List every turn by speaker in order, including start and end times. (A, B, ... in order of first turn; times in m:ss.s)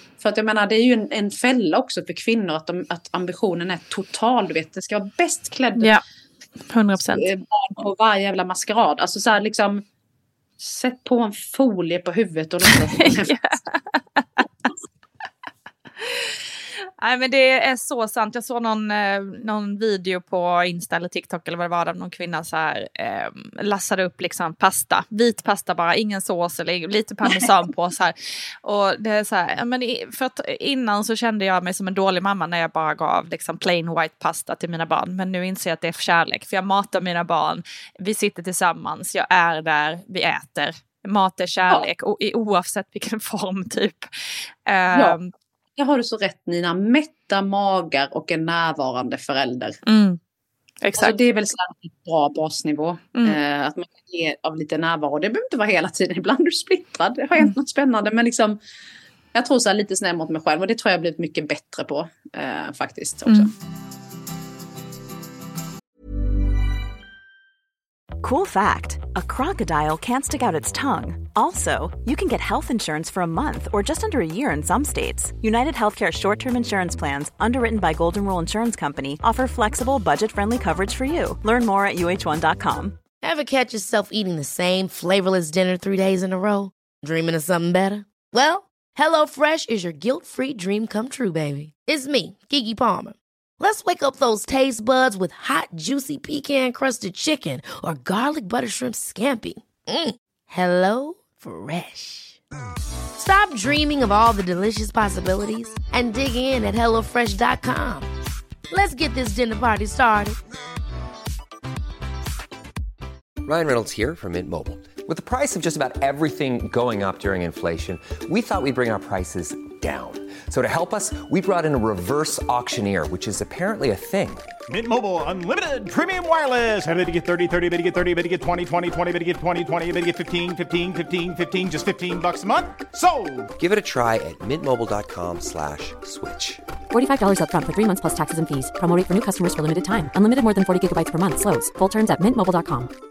0:00.2-0:06.0 A
0:06.7-0:07.3 B
0:07.1-0:09.8 A
0:10.6-0:13.3 A
0:12.7-0:14.4 B
0:16.0-0:16.4 B
0:17.0-0:44.1 B
0:44.7-0:45.3 B
0:44.9-0:45.2 A
0:45.8-0:49.8 A
0:49.8-0:50.2 B
0:50.8-0:51.2 B
0:50.9-0:58.6 A
0:59.3-1:03.5 A
1:08.2-1:23.0 C
1:23.2-1:42.4 D
1:43.2-1:48.1 D
1:48.7-1:50.4 D
1:53.4-2:04.5 E
2:04.7-2:13.5 F
2:13.6-2:16.6 E
2:16.9-2:22.9 G